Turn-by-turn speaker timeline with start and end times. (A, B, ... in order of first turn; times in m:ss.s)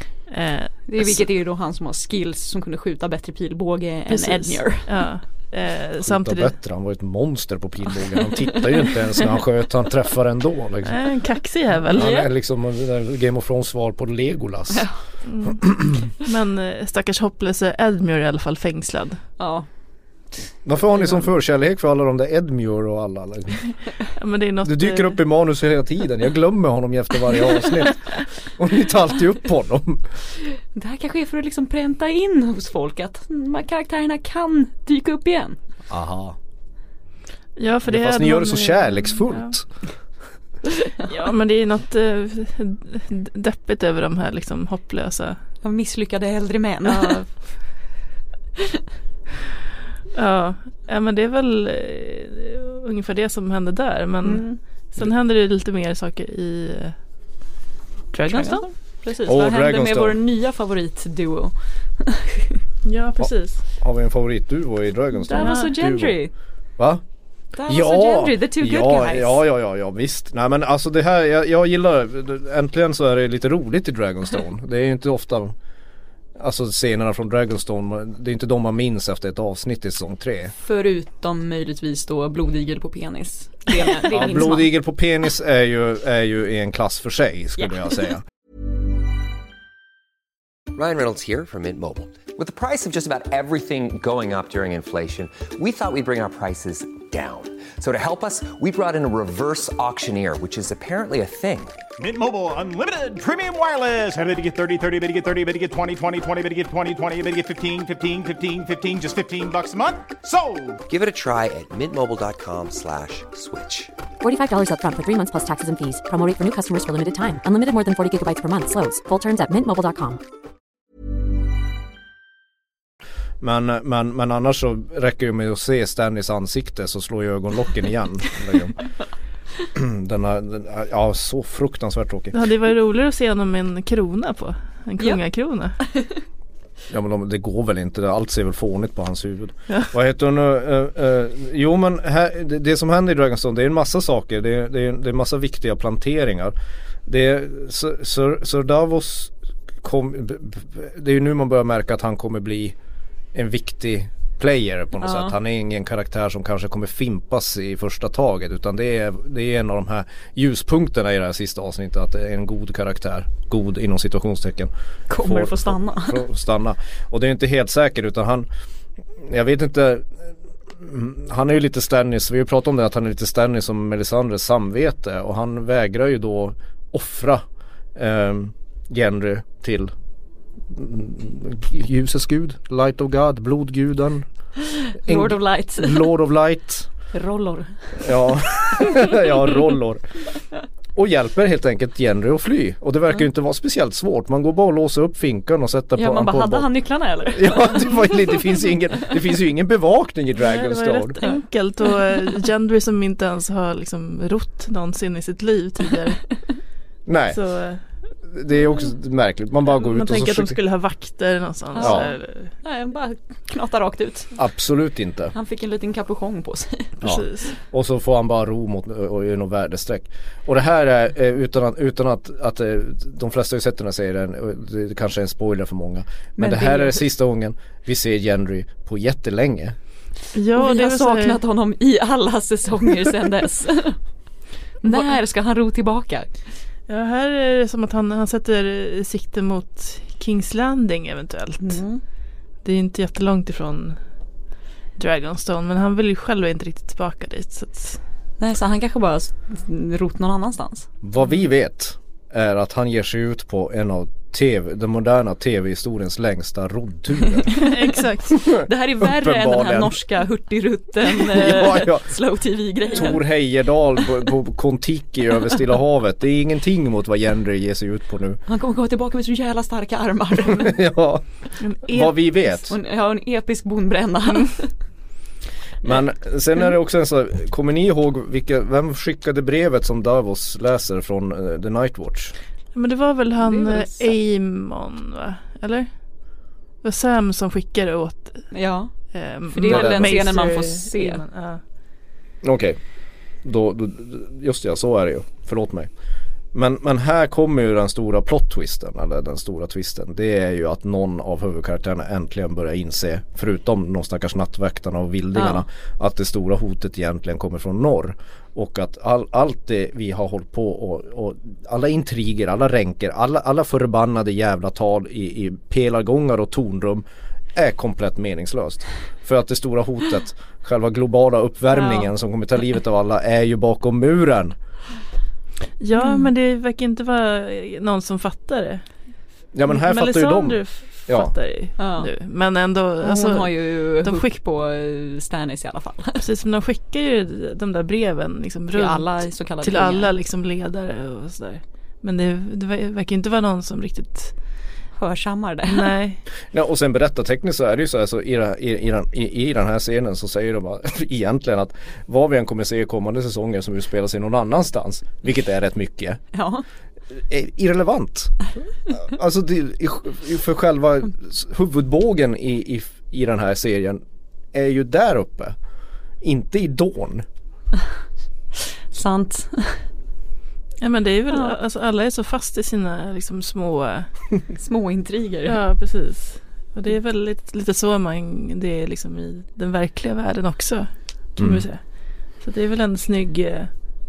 0:00.3-0:01.2 A
0:00.9-0:04.9 B
0:04.1-0:06.5 A
0:06.0-0:11.0 C
0:10.8-0:12.2 A
0:11.9-0:14.9 C
0:12.0-0:12.3 B
0:15.2-0:19.2 A
0:15.7-0:15.9 C
0:19.4-0:19.7 B
0:20.6-0:23.6 C
0:24.2-0:25.2 A
0:24.6-0:30.0 C
0:30.7-0:35.6 B
0:35.9-0:36.4 C
0:37.6-0:39.5 A
0:37.9-0:39.7 C
0:41.0-0:45.4 A
0:45.6-0:47.2 B
0:46.8-0:47.3 A
0:50.1-0:56.9 A
0:54.2-0:54.6 B
0:58.1-0:58.7 A
0:58.3-1:02.6 B
0:59.2-1:00.2 C
1:02.8-1:03.6 A
1:03.2-1:06.2 C
1:05.2-1:06.3 B
1:05.4-1:05.7 A
1:06.8-1:07.0 C
1:07.6-1:09.4 B
1:07.6-1:15.5 C
1:16.4-1:20.5 C
1:20.6-1:24.7 B
1:24.1-1:28.2 C
1:30.7-1:41.8 D
1:42.0-1:50.8 E
1:50.9-1:53.9 D
1:54.2-2:00.2 F
2:03.4-2:08.8 C
2:09.7-2:12.3 C
2:12.3-2:15.8 A
2:16.9-2:26.5 C
2:27.0-2:32.7 C
2:33.3-2:48.5 C
2:35.0-2:35.3 B
2:45.1-2:46.2 B
2:49.2-2:50.1 C
2:50.8-2:57.4 C
2:57.9-2:59.9 C
3:00.7-3:04.2 C
3:04.8-3:06.1 B
3:05.0-3:06.9 C
3:07.1-3:07.7 B
3:08.0-3:10.0 C
3:10.9-3:16.7 C
3:16.0-3:18.1 B
3:17.2-3:21.2 C
3:20.4-3:26.3 A
3:27.0-3:27.4 C
3:27.3-3:27.8 A
3:28.3-3:30.6 C
3:29.8-3:32.5 A
3:31.7-3:34.3 B
3:31.8-3:32.1 C
3:34.4-3:35.3 C
3:35.3-3:36.9 B
3:37.0-3:49.8 C
3:37.0-3:37.5 A
3:46.4-3:47.0 B
3:50.3-3:51.4 A
3:50.5-3:54.0 B
3:54.8-3:56.3 B
3:54.8-3:55.1 A
3:56.9-4:01.8 A
4:01.6-4:02.0 B
4:02.6-4:04.0 A
4:05.0-4:08.0 A
4:08.4-4:10.9 B
4:11.0-4:17.5 C
4:17.5-4:18.4 A
4:18.3-4:23.2 B
4:18.4-4:20.0 C
4:21.1-4:22.1 C
4:22.9-4:28.4 C
4:28.5-4:30.8 B
4:30.5-4:31.2 C
4:31.6-4:32.3 A
4:31.8-4:32.7 C
4:32.7-4:34.7 B
4:35.8-4:42.3 C
4:42.7-4:45.9 A
4:43.4-4:44.1 B
4:46.8-4:48.5 A
4:48.5-4:48.9 B
4:49.1-4:51.6 A
4:49.5-4:51.2 B
4:49.6-4:50.2 C
4:52.4-4:52.8 C
4:53.4-4:55.9 C
4:56.5-5:24.5 C
5:05.3-5:05.6 B
5:21.7-5:22.1 B
5:25.8-5:28.8 A
5:26.0-5:26.2 B
5:29.5-5:31.3 C
5:29.7-5:34.2 A
5:31.8-5:32.1 B
5:33.0-5:36.2 B
5:36.2-5:44.3 A
5:38.7-5:40.1 B
5:45.0-5:45.9 B
5:45.6-5:46.2 A
5:46.5-5:56.2 C
5:56.3-5:56.6 B
5:57.2-5:58.4 C
5:58.9-6:04.0 C
6:04.5-6:05.6 C
6:06.2-6:07.2 C
6:08.9-6:09.8 B
6:10.8-6:14.1 A
6:14.6-6:15.6 B
6:15.4-6:21.8 A
6:21.4-6:21.6 C
6:22.4-6:23.7 A